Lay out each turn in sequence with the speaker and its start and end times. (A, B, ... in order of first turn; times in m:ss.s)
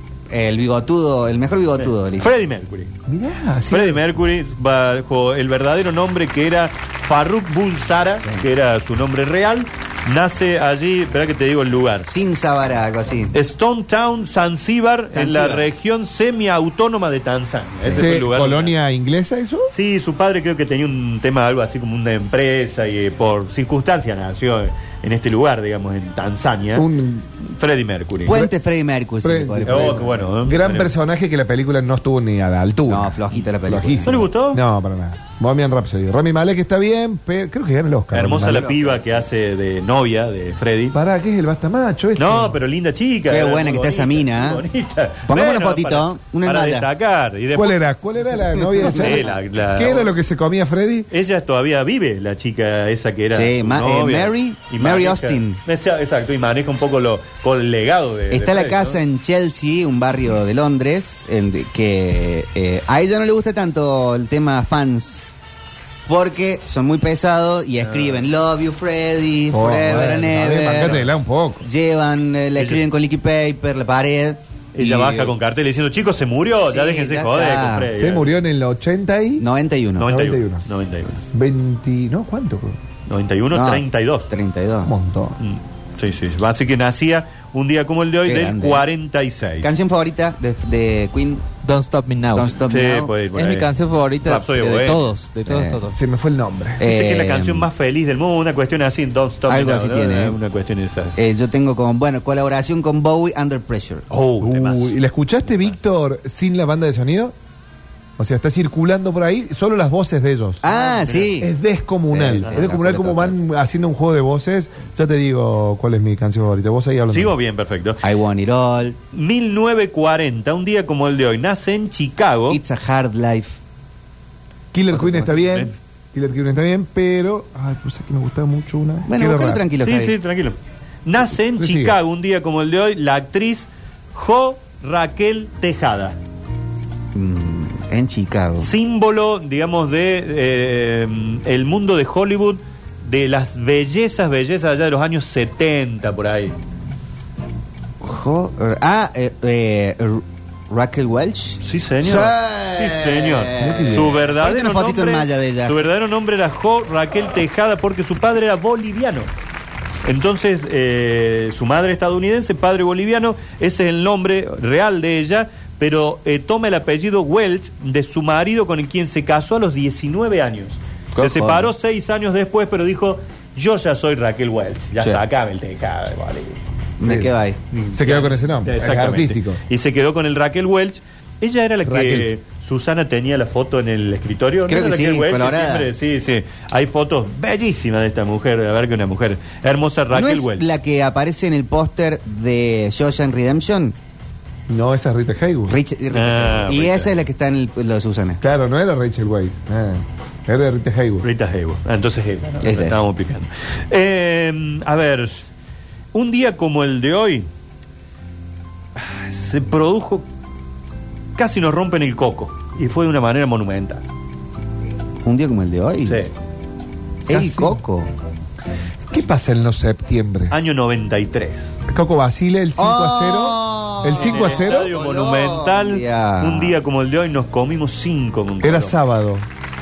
0:00.3-0:02.3 A
0:01.8-0:02.9 B
0:03.1-0:04.0 C
0:03.7-0:12.1 B
0:12.0-0:13.3 A
0:13.3-0:18.7 B
0:15.1-0:15.7 A
0:17.8-0:18.2 A
0:18.0-0:19.7 C
0:19.7-0:26.9 B
0:26.8-0:27.3 C
0:27.4-0:28.4 B
0:28.2-0:30.3 A
0:28.3-0:28.5 C
0:29.2-0:38.6 C
0:29.6-0:30.9 B
0:32.9-0:34.2 A
0:34.0-0:34.6 B
0:38.1-0:41.0 B
0:38.4-0:39.2 A
0:40.9-0:42.6 C
0:42.2-0:47.8 B
0:43.2-0:44.6 A
0:45.3-0:46.9 A
0:47.5-0:51.1 C
0:48.6-0:49.3 A
0:48.8-0:50.1 B
0:51.1-0:59.0 B
0:53.3-0:55.6 A
0:58.3-1:05.3 A
1:06.0-1:11.0 A
1:07.8-1:08.3 B
1:09.5-1:11.6 C
1:11.6-1:15.3 A
1:12.6-1:12.8 B
1:14.7-1:18.3 B
1:16.6-1:17.9 A
1:18.0-1:19.4 C
1:19.4-1:20.1 A
1:20.0-1:21.2 B
1:20.0-1:20.6 C
1:21.3-1:22.8 C
1:23.1-1:24.3 B
1:23.5-1:24.9 A
1:24.8-1:25.4 C
1:25.4-1:29.7 B
1:28.2-1:28.8 A
1:29.6-1:31.4 A
1:31.6-1:32.6 D
1:32.3-1:33.1 A
1:32.7-1:33.7 B
1:33.3-1:36.0 D
1:34.2-1:35.1 B
1:35.5-1:35.8 A
1:35.9-1:36.8 C
1:36.8-1:37.7 A
1:36.8-1:41.2 B
1:39.5-1:40.4 A
1:41.2-1:44.0 A
1:44.1-1:45.0 B
1:44.4-1:47.3 C
1:48.2-1:50.6 C
1:50.6-1:51.5 A
1:50.6-1:51.4 B
1:51.4-1:57.3 C
1:52.1-1:53.4 A
1:52.4-1:52.7 B
1:57.1-1:58.0 B
1:58.0-1:59.0 A
1:59.1-2:02.6 B
2:02.5-2:03.6 A
2:04.7-2:09.6 C
2:05.1-2:05.7 B
2:09.1-2:10.1 A
2:09.8-2:16.2 B
2:11.6-2:12.0 C
2:17.1-2:18.7 A
2:18.6-2:26.5 B
2:28.0-2:35.8 A
2:31.6-2:39.3 B
2:33.6-2:34.2 C
2:40.0-2:56.6 B
2:51.1-2:51.7 A
2:57.0-2:57.6 A
2:57.0-2:57.4 C
2:57.7-3:10.7 B
2:57.9-2:59.6 C
3:01.8-3:02.3 C
3:04.7-3:05.9 A
3:10.1-3:13.9 A
3:14.7-3:15.8 C
3:15.7-3:18.4 A
3:16.1-3:17.1 B
3:18.4-3:21.3 C
3:21.2-3:25.5 B
3:22.6-3:23.0 A
3:26.1-3:27.5 B
3:29.0-3:30.2 B
3:31.4-3:34.0 B
3:35.2-3:36.2 A
3:37.3-3:38.1 A
3:37.3-3:37.8 C
3:39.1-3:40.7 C
3:40.5-3:41.7 B
3:41.9-3:44.9 C
3:42.8-3:46.8 A
3:44.1-3:49.0 B
3:48.6-3:49.5 C